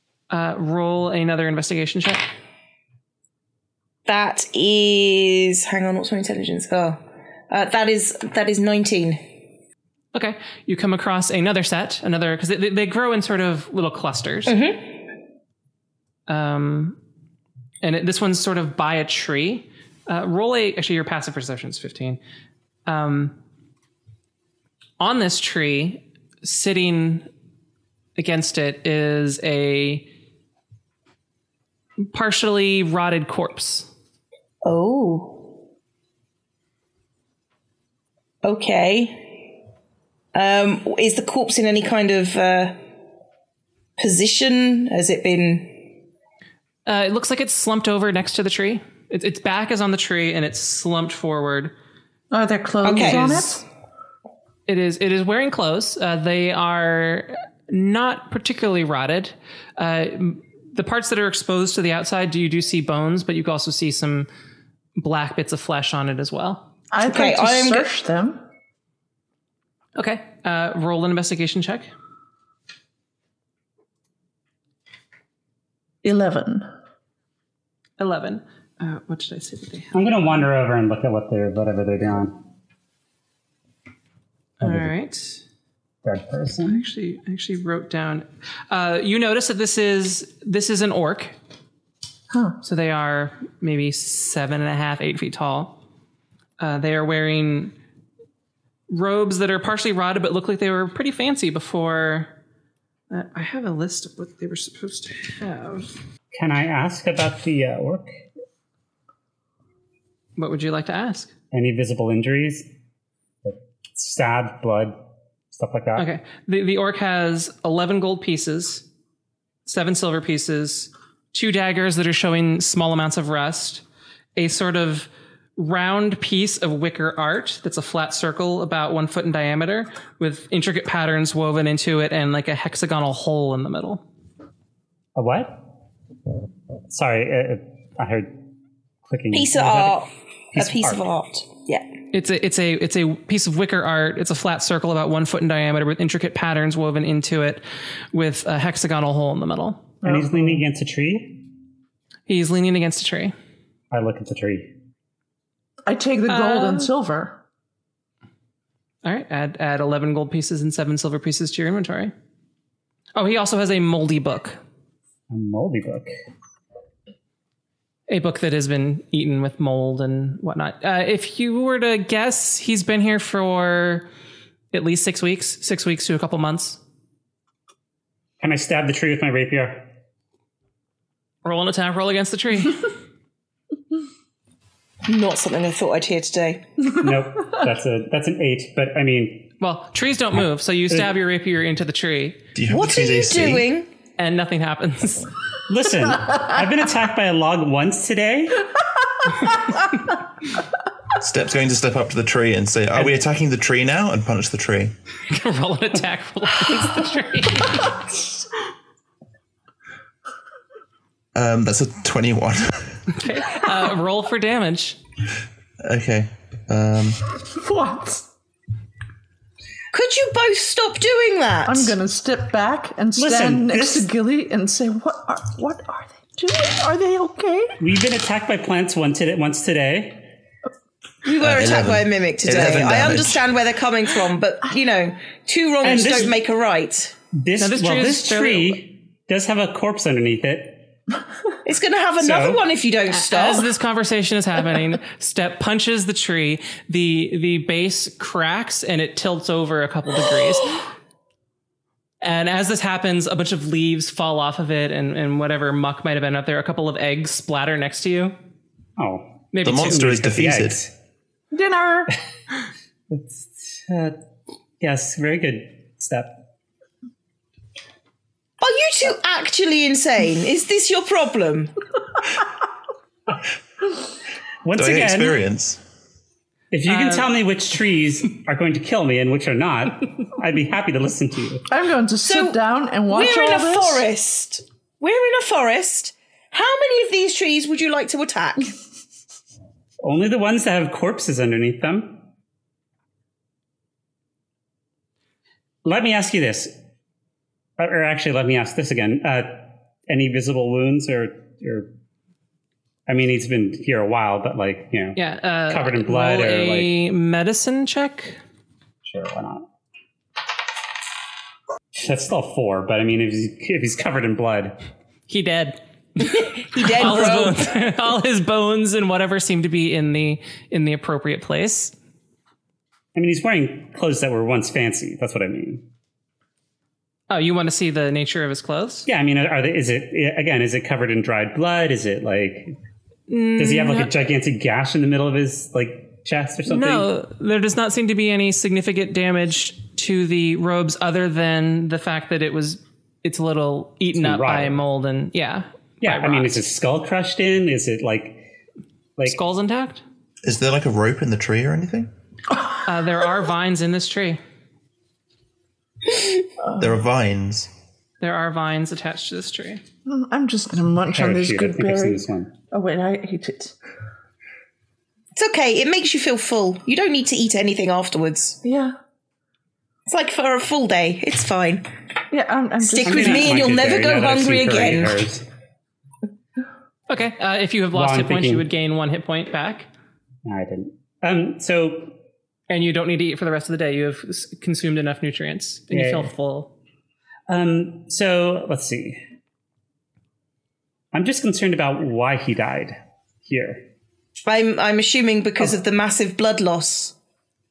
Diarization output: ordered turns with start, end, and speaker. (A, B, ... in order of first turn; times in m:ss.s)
0:00.3-0:02.3 A
0:04.1-0:09.2 B
0:10.1-0:14.6 A
0:14.5-0:15.0 B
0:16.3-0:17.0 A
0:17.8-0:22.2 A
0:22.9-0:23.4 A
0:25.0-0:27.3 A
0:28.2-0:30.1 A
0:32.1-0:33.9 A
0:34.6-0:35.5 B
0:38.4-0:39.4 B
0:40.3-0:42.8 B
0:44.0-0:45.9 B
0:46.9-0:51.7 A
0:52.3-0:53.6 C
0:52.8-0:53.4 B
0:53.0-0:53.6 A
0:54.7-1:04.3 A
1:05.0-1:06.7 A
1:06.9-1:08.4 C
1:07.0-1:07.9 B
1:10.0-1:11.9 A
1:16.0-1:16.7 C
1:18.0-1:20.4 A
1:19.9-1:22.4 D
1:24.6-1:25.4 A
1:24.6-1:24.9 D
1:26.0-1:26.8 D
1:26.6-1:31.4 A
1:32.6-1:35.8 A
1:36.6-1:37.7 A
1:38.9-1:42.3 A
1:43.1-1:45.9 A
1:46.3-1:48.1 D
1:50.4-1:51.3 A
1:51.5-1:52.7 D
1:53.4-1:55.0 D
1:55.5-1:56.1 D
1:56.0-1:58.9 A
1:59.7-2:03.8 A
2:04.4-2:14.0 A
2:15.2-2:15.6 D
2:16.9-2:18.4 D
2:19.1-2:20.0 D
2:19.3-2:21.9 B
2:20.5-2:21.0 D
2:22.1-2:29.9 A
2:30.0-2:31.4 D
2:30.0-2:30.6 C
2:32.3-2:33.3 A
2:33.9-2:34.7 D
2:35.9-2:37.4 C
2:36.3-2:36.9 A
2:39.0-2:42.1 A
2:43.2-2:44.6 A
2:45.3-2:46.1 D
2:48.1-2:54.1 A
2:54.7-2:56.8 A
2:58.4-2:59.9 D
3:01.4-3:02.9 A
3:05.1-3:06.6 B
3:06.9-3:09.5 D
3:09.6-3:12.4 A
3:12.6-3:13.7 E
3:12.7-3:13.9 B
3:14.2-3:15.3 A
3:15.7-3:18.7 D
3:21.2-3:24.9 E
3:25.3-3:28.0 A
3:31.4-3:32.9 E
3:33.1-3:35.0 A
3:35.8-3:37.2 E
3:37.5-3:38.2 C
3:39.9-3:42.0 B
3:41.6-3:47.8 C
3:43.2-3:44.1 D
3:47.8-3:50.3 D
3:51.2-3:57.2 B
3:51.4-3:53.5 E
3:55.8-3:56.4 D
3:57.3-4:00.9 D
3:57.6-3:58.8 A
4:01.6-4:03.7 B
4:02.2-4:02.6 D
4:03.1-4:10.8 A
4:12.2-4:18.4 A
4:19.0-4:20.9 D
4:19.5-4:20.1 A
4:19.6-4:20.8 E
4:21.5-4:22.1 C
4:23.1-4:24.2 D
4:24.8-4:26.4 D
4:28.6-4:31.7 B
4:34.6-4:35.4 D
4:34.7-4:35.8 E
4:36.7-4:41.7 D
4:36.9-4:37.3 A
4:41.7-4:44.0 C
4:42.2-4:48.8 B
4:50.0-4:52.2 D
4:55.8-4:56.7 D
4:57.8-5:01.9 D
5:03.1-5:07.0 D
5:05.2-5:08.4 A
5:09.0-5:09.6 D
5:11.9-5:14.8 D
5:15.3-5:21.9 A
5:16.3-5:17.7 B
5:23.2-5:25.8 D
5:27.3-5:29.1 A
5:29.1-5:32.8 D
5:33.3-5:34.1 A
5:33.6-5:37.1 D
5:36.7-5:46.7 A
5:44.2-5:44.8 D
5:46.0-5:48.4 D
5:49.3-5:50.0 A
5:50.4-5:52.1 E
5:52.8-5:54.4 A
5:56.8-5:57.7 E
5:58.2-5:59.8 A
6:00.1-6:03.8 C
6:01.1-6:02.5 D
6:05.4-6:08.6 B
6:08.6-6:09.0 C
6:10.1-6:11.9 B
6:12.3-6:13.6 C
6:12.8-6:15.2 B
6:13.0-6:15.5 D
6:17.1-6:19.9 A
6:17.9-6:18.7 D
6:20.4-6:22.2 D
6:22.7-6:26.7 A
6:25.9-6:26.3 D
6:27.5-6:29.2 D
6:31.1-6:33.8 D
6:34.5-6:37.1 B